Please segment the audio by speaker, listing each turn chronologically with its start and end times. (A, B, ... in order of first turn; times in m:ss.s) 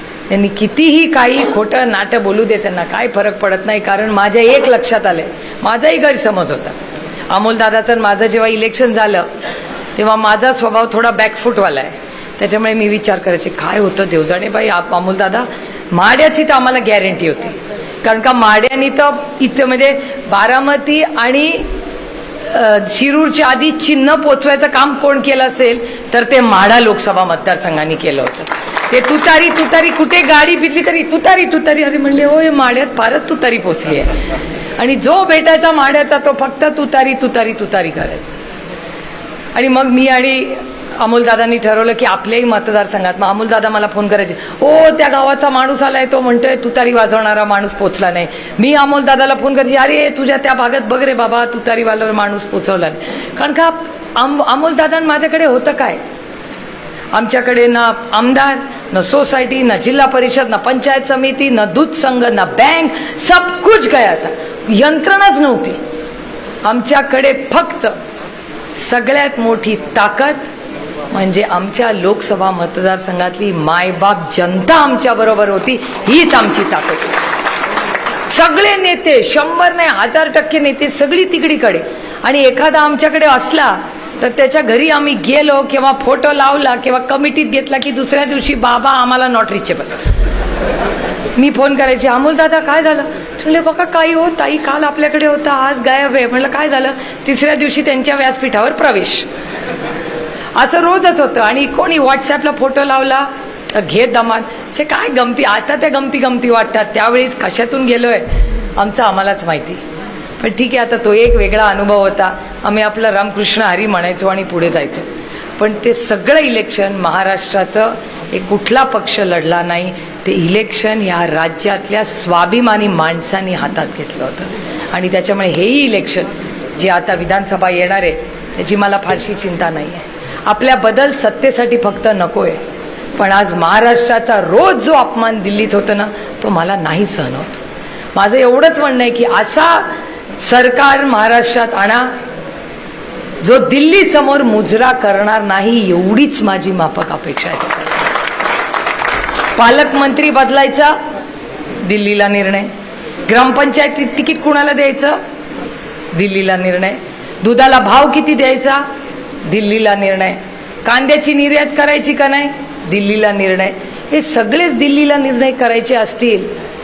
0:00.3-0:06.8 A
0:07.3-0:09.3 A
0:10.0-0:21.7 A
0:22.4-0:34.2 A
0:34.8-0:38.3 A
0:39.5-0:56.0 A
0:57.1-1:05.8 A
1:06.6-1:08.0 A
1:08.8-1:10.5 A
1:11.1-1:17.2 A
1:18.3-1:30.0 A
1:31.4-1:39.2 A
1:40.5-1:49.8 A
1:50.4-2:12.6 A
2:13.2-2:17.6 A
2:18.1-2:22.1 A
2:23.4-2:28.1 A
2:29.6-2:31.0 A
2:31.8-2:32.7 A
2:33.2-2:35.2 A
2:36.1-2:38.8 A
2:39.4-2:46.5 A